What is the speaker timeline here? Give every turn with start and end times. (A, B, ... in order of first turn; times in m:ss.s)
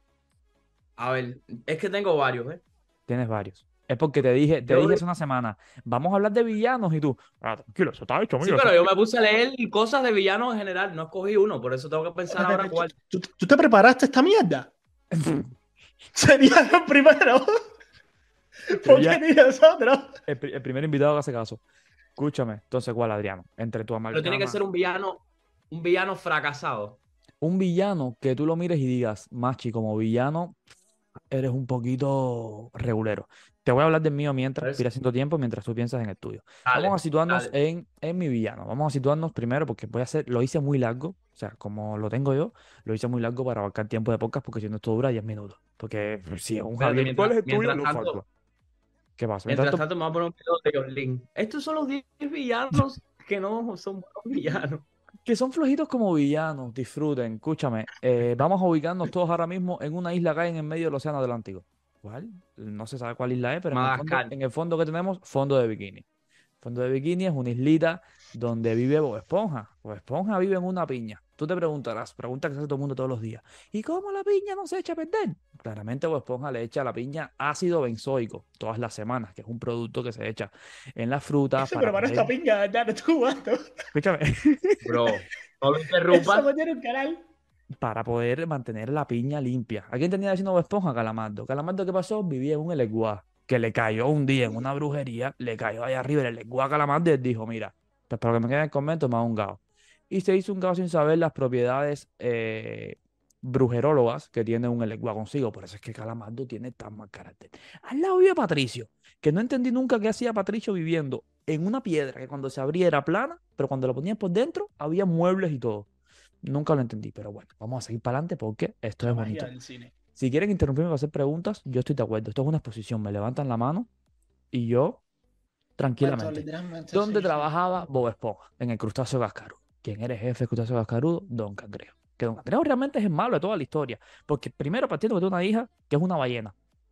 0:01.0-0:02.6 A
0:03.1-0:08.8 B
0:04.6-0:05.0 A
0:08.4-0:12.9 A
0:12.3-0:14.7 C
0:15.2-0:15.4 B
0:16.1-0:17.5 C
0:18.7-0:20.1 C
0:18.8-0:19.2 B
0:20.2-0:21.6 B
0:22.2-0:24.6 B
0:24.1-0:27.0 A
0:27.4-0:30.6 B
0:31.3-0:48.2 B
0:36.6-0:37.5 A
0:46.8-0:48.2 A
0:49.2-0:49.8 B
0:49.5-0:54.8 A
0:55.2-1:06.0 B
1:03.7-1:04.3 A
1:06.6-1:22.3 B
1:21.6-1:23.8 C
1:23.9-1:25.1 B
1:24.8-1:26.5 A
1:26.1-1:27.2 C
1:27.8-1:55.9 B
1:56.4-1:59.5 B
1:59.0-1:59.9 C
2:00.1-2:03.9 B
2:04.5-2:05.0 B
2:05.8-2:16.5 B
2:06.0-2:07.5 C